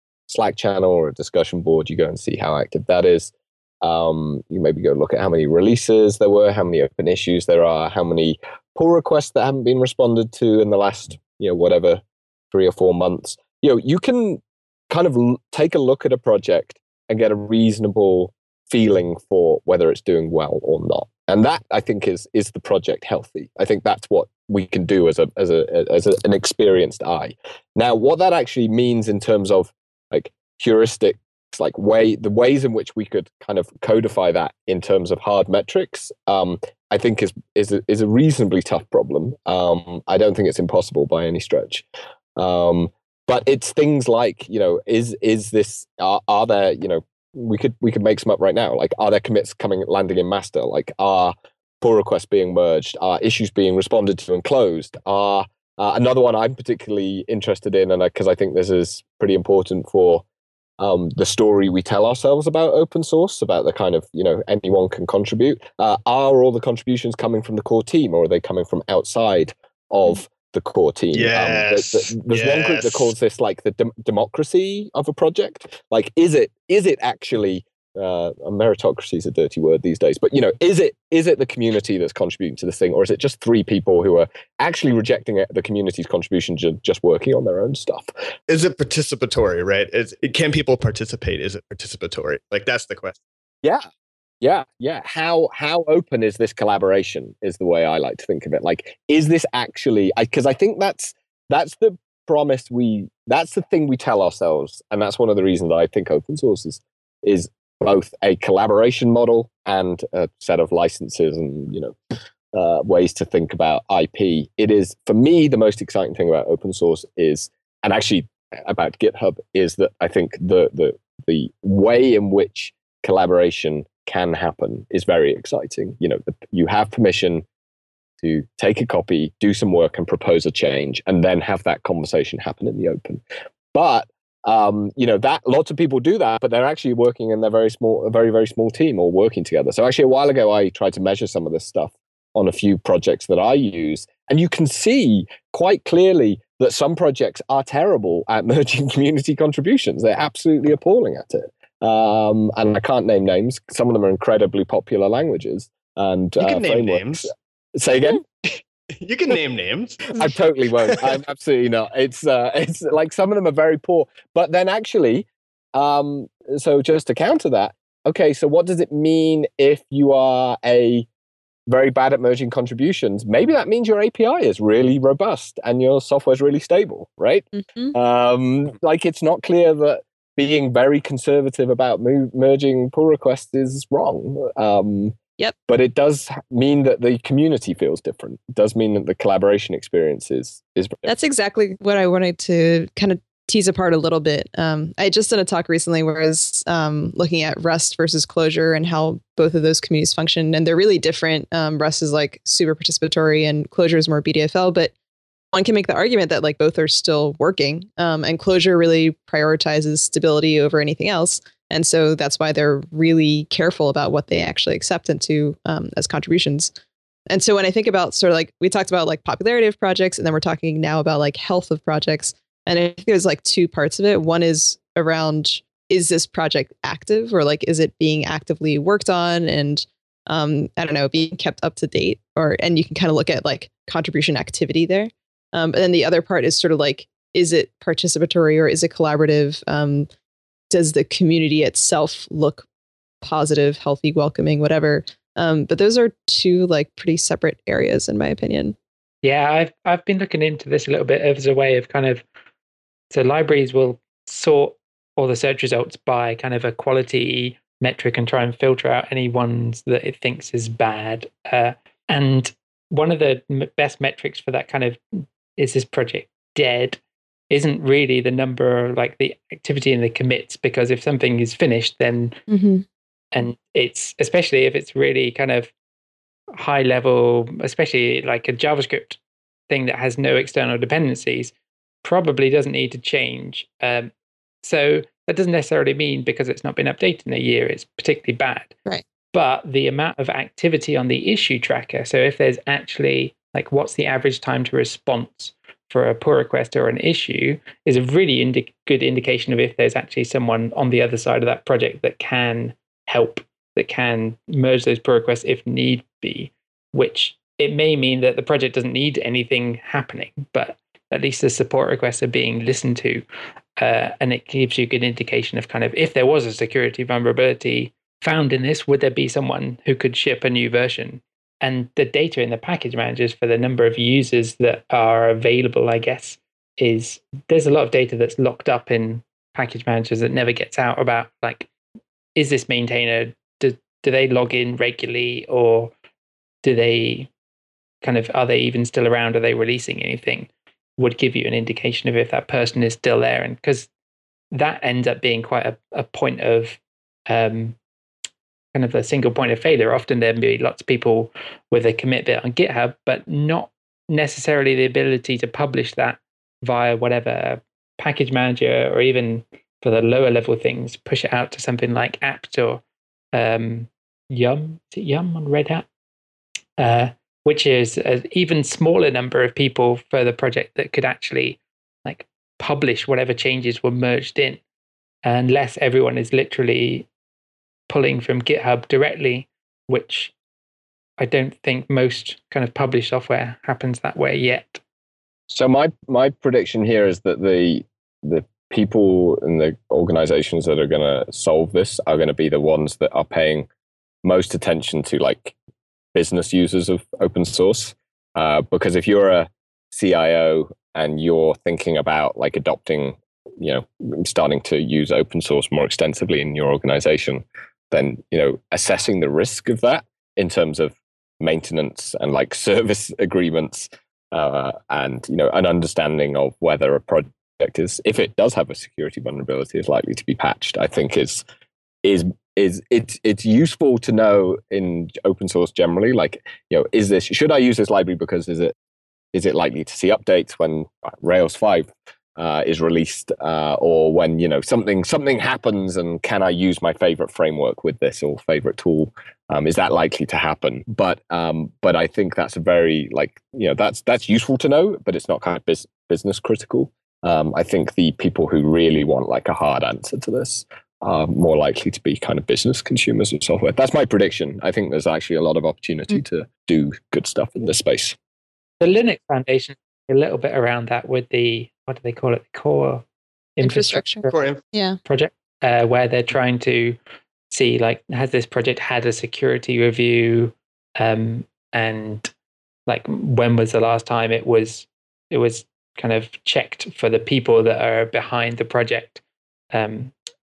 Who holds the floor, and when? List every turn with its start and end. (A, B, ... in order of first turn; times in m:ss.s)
0:00.3-0:41.8 A
0:42.4-1:00.2 A
1:00.8-1:28.1 A
1:11.1-1:13.1 B
1:28.5-1:33.2 B
1:34.4-1:52.0 A
1:52.5-2:07.4 A
2:08.2-2:13.2 A
2:13.7-2:38.2 A
2:36.4-2:37.3 B
2:39.0-2:40.3 B
2:40.1-2:51.1 A
2:40.9-2:41.1 B
2:51.7-3:05.2 A
2:57.5-2:57.9 C
3:05.7-3:11.1 A
3:11.1-3:24.9 C
3:25.5-3:36.7 C
3:37.3-4:00.1 C
4:00.7-4:02.7 C
4:03.2-4:08.8 C
4:09.2-4:12.2 D
4:13.1-4:32.4 D
4:32.5-4:32.8 C
4:33.3-4:35.7 D
4:36.6-4:39.2 D
4:39.7-4:44.1 D
4:44.6-4:48.8 D
4:49.3-5:13.2 D
5:13.8-5:31.7 D
5:32.4-5:35.9 D
5:36.6-5:37.3 D
5:38.0-5:43.9 D
5:44.5-5:47.8 D
5:48.7-6:05.9 D
6:06.8-6:14.6 D
6:15.2-6:17.1 D
6:17.9-6:20.3 D
6:21.2-6:24.8 D
6:25.5-6:33.7 A
6:34.2-6:35.6 A
6:36.1-7:01.4 A
7:02.0-7:08.7 A
7:09.3-7:38.2 A
7:38.8-7:43.0 D
7:43.6-7:44.3 D
7:43.6-7:45.0 C
7:44.3-7:44.6 B
7:45.1-7:47.0 D
7:47.5-7:52.3 D
7:52.9-8:00.1 D